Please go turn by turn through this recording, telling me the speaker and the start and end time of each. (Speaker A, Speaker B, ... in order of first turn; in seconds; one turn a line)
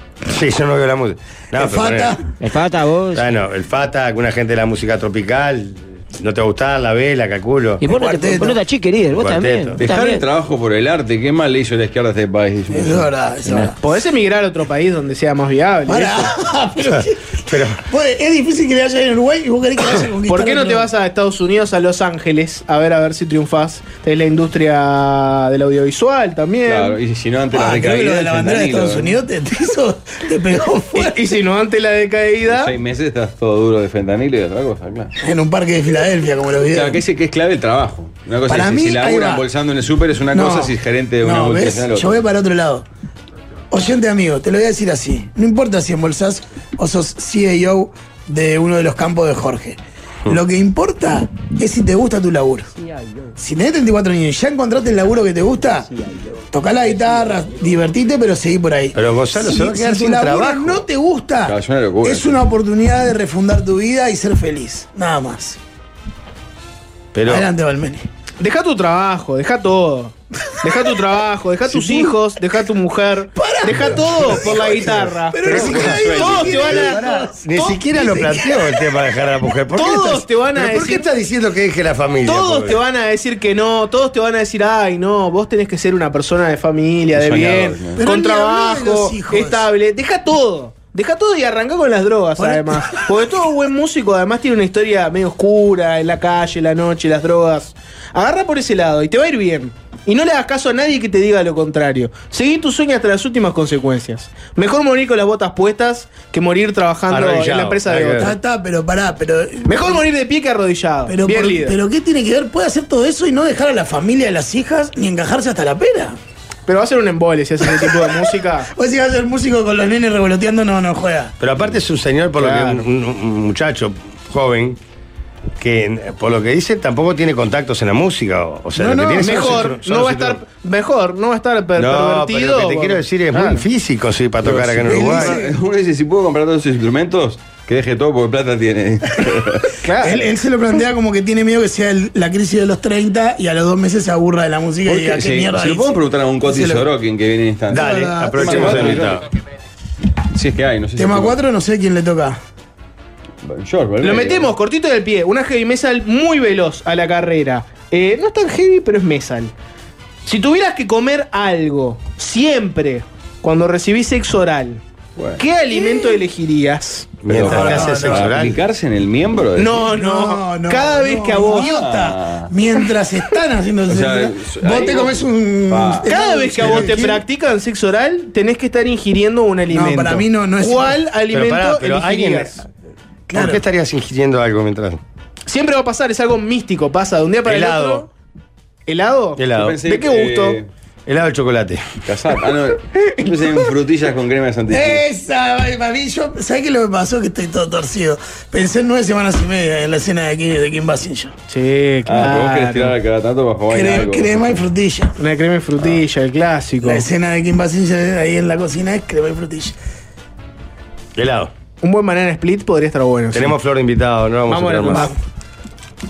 Speaker A: 0.3-2.2
Speaker B: 1.6-2.2
Speaker C: 2.4-3.2
Speaker A: 3.1-7.8
Speaker C: 7.8-10.2
Speaker B: 7.8-8.6
Speaker A: 9.2-9.8
Speaker D: 9.8-13.1
Speaker B: 12.7-13.8
Speaker E: 13.8-16.3
Speaker B: 15.9-20.9
Speaker A: 16.9-17.8
Speaker E: 20.3-27.0
Speaker D: 26.7-29.2
Speaker B: 27.5-31.3
Speaker E: 30.9-32.7
Speaker D: 32.5-35.1
Speaker B: 35.2-37.0
Speaker D: 36.7-42.2
Speaker B: 38.5-39.4
Speaker B: 40.3-42.9
Speaker B: 43.7-52.7
Speaker B: 53.4-55.9
Speaker B: 56.5-65.6
Speaker A: 58.9-60.9
Speaker D: 61.5-62.4
Speaker A: 67.1-67.5
Speaker B: 67.3-68.1
Speaker E: 68.4-77.0
Speaker B: 71.7-72.1
Speaker B: 73.4-78.9
Speaker D: 75.5-76.7
Speaker A: 76.5-82.8
Speaker E: 79.7-81.1
Speaker E: 82.2-108.3
Speaker D: 87.1-88.0
Speaker B: 88.0-89.7
Speaker B: 92.4-93.1
Speaker A: 107.1-108.3
Speaker B: 108.2-110.0
Speaker E: 109.7-111.8
Speaker B: 111.1-116.2
Speaker E: 116.7-118.7
Speaker B: 117.7-121.4
Speaker A: 121.4-124.8
Speaker E: 122.4-122.8
Speaker A: 125.6-130.4
Speaker B: 128.8-129.8
Speaker E: 129.2-133.7
Speaker A: 131.8-135.4
Speaker D: 134.4-139.8
Speaker B: 134.9-135.5
Speaker E: 139.8-140.3
Speaker B: 140.0-146.8
Speaker D: 144.9-149.2
Speaker A: 147.7-149.2
Speaker B: 147.7-149.1
Speaker D: 150.3-151.4
Speaker B: 151.0-152.4
Speaker D: 153.4-154.5
Speaker E: 154.0-159.5
Speaker E: 160.2-164.8
Speaker D: 165.2-165.4
Speaker E: 165.4-167.1
Speaker A: 167.2-168.6
Speaker D: 167.3-169.9
Speaker B: 167.4-168.4
Speaker E: 169.6-171.7
Speaker B: 169.9-177.2
Speaker D: 171.4-172.5
Speaker D: 173.9-176.1
Speaker E: 176.1-182.7
Speaker B: 179.7-181.0
Speaker A: 181.3-182.6
Speaker B: 183.3-183.6
Speaker A: 183.3-185.0
Speaker E: 185.5-188.1
Speaker A: 187.4-188.1
Speaker E: 188.9-190.6
Speaker A: 189.4-189.8
Speaker D: 189.6-190.7
Speaker A: 191.1-191.9
Speaker D: 192.1-195.1
Speaker B: 194.7-201.3
Speaker E: 201.5-203.0
Speaker D: 202.1-204.6
Speaker B: 203.7-205.2
Speaker E: 205.2-207.1
Speaker B: 206.8-209.8
Speaker A: 211.2-211.5
Speaker E: 211.8-213.6
Speaker A: 213.3-215.1
Speaker E: 214.5-215.1
Speaker B: 214.9-215.2